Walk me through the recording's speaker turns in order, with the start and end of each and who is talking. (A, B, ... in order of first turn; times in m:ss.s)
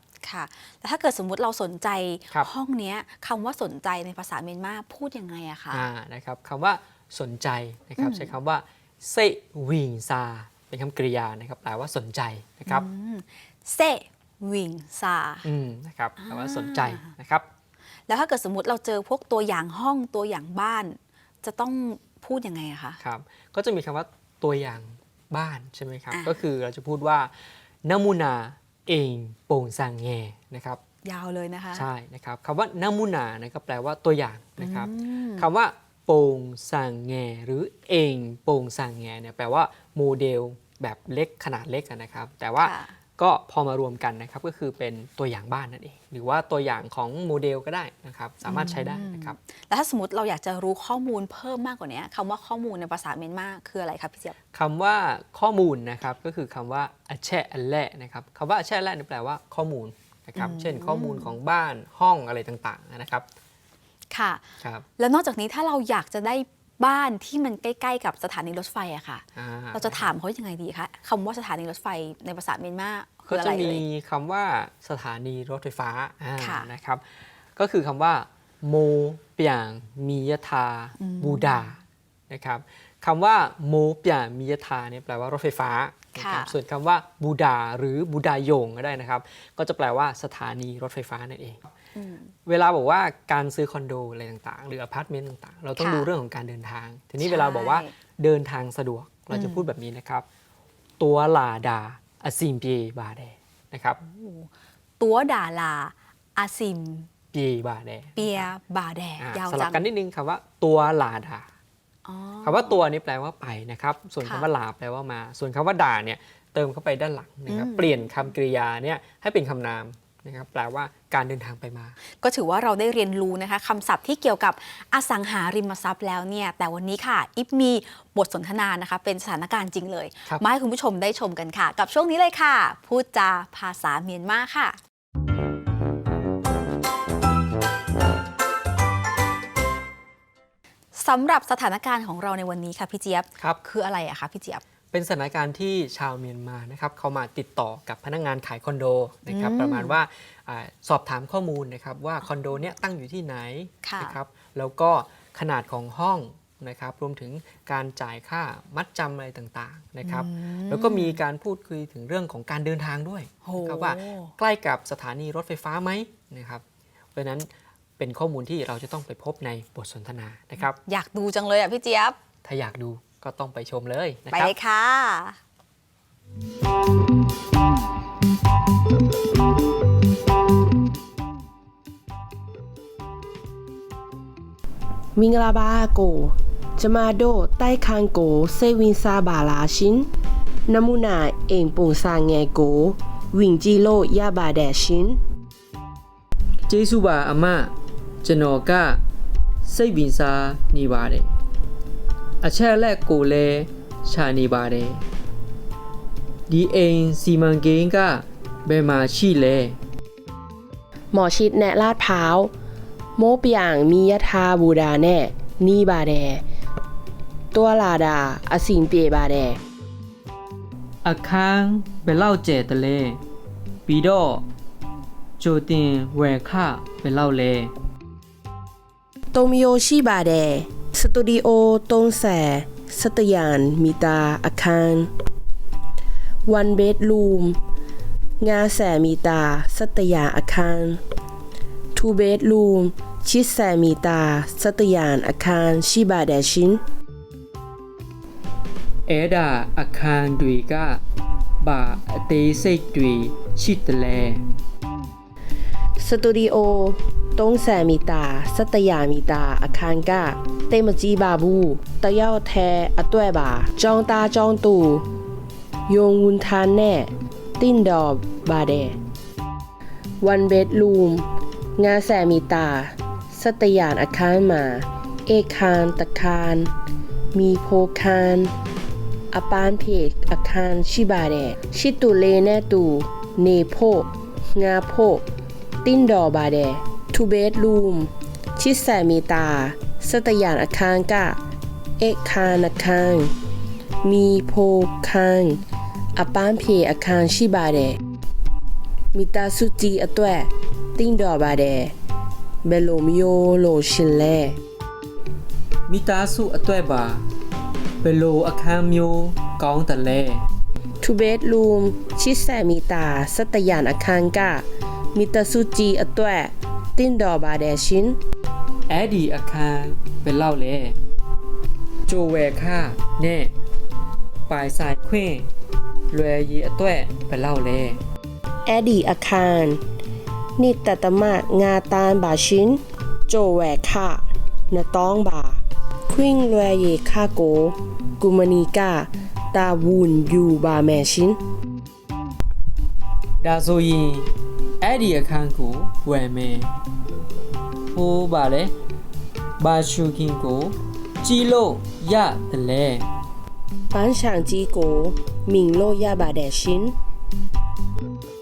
0:00.2-0:05.8 A
0:05.7-0:12.9 B
0:08.0-0:08.3 A
0:12.7-0:15.5 A
0:15.4-0:17.5 B
0:16.2-0:17.1 A
0:18.1-0:23.0 A
0:23.0-0:27.3 B
0:26.1-0:26.4 A
0:27.8-0:30.8 B
0:31.0-0:31.9 A
0:31.7-0:49.4 B
0:34.6-0:35.5 A
0:42.6-0:43.0 A
0:48.4-0:54.4 A
0:54.5-1:03.3 B
1:00.4-1:01.4 A
1:04.1-1:04.4 A
1:04.6-1:04.9 B
1:05.0-1:13.8 A
1:09.4-1:10.1 B
1:13.3-1:17.0 B
1:16.4-1:16.7 A
1:17.6-1:21.8 B
1:21.0-1:21.7 A
1:22.3-1:31.6 B
1:26.2-1:26.6 A
1:32.0-1:32.3 A
1:32.5-1:40.2 B
1:35.8-1:36.1 A
1:37.2-1:37.9 A
1:39.3-1:39.7 A
1:41.0-1:44.0 B
1:44.0-1:47.1 A
1:47.3-1:48.5 B
1:48.2-1:49.8 A
1:49.2-1:51.5 B
1:52.1-1:52.8 A
1:52.4-2:02.0 B
1:54.2-1:54.5 A
1:57.5-1:57.9 A
2:02.2-2:14.8 A
2:21.0-2:24.6 A
2:24.9-2:46.6 B
2:29.3-2:30.0 A
2:33.8-2:34.2 A
2:40.0-2:41.2 A
2:43.4-2:44.3 A
2:47.2-2:50.8 B
2:50.8-2:52.2 A
2:52.4-2:54.5 B
2:54.3-2:55.4 A
3:05.2-3:10.1 C
3:10.7-3:15.2 C
3:16.7-3:17.7 B
3:18.2-3:19.0 B
3:19.6-3:21.4 B
3:22.4-3:25.0 B
3:26.5-3:29.8 B
3:31.1-3:32.5 C
3:33.2-3:36.4 C
3:37.5-3:39.6 C
3:41.0-3:43.2 B
3:43.9-3:44.4 B
3:45.4-3:47.7 B
3:49.3-3:55.1 C
3:56.5-3:57.6 C
3:58.4-4:01.0 C
4:02.0-4:06.8 C
4:09.1-4:11.0 B
4:11.6-4:14.4 B
4:16.0-4:25.0 C
4:25.9-4:29.0 C
4:30.2-4:31.2 C
4:31.8-4:36.7 C
4:37.3-4:38.5 C
4:39.3-4:45.2 C
4:45.8-4:51.4 C
4:52.0-4:53.3 C
4:54.0-4:55.6 C
4:56.2-4:58.0 C
4:59.1-5:01.9 C
5:02.6-5:04.6 C
5:05.9-5:07.2 B
5:08.0-5:10.4 B
5:11.0-5:14.6 C
5:15.2-5:18.2 C
5:18.9-5:21.0 B
5:22.1-5:23.5 B
5:24.5-5:25.5 B
5:26.1-5:28.0 B
5:28.7-5:29.8 C
5:30.6-5:41.4 C
5:43.4-5:46.7 B
5:47.9-5:48.7 B
5:49.6-5:53.1 B
5:53.9-5:56.9 C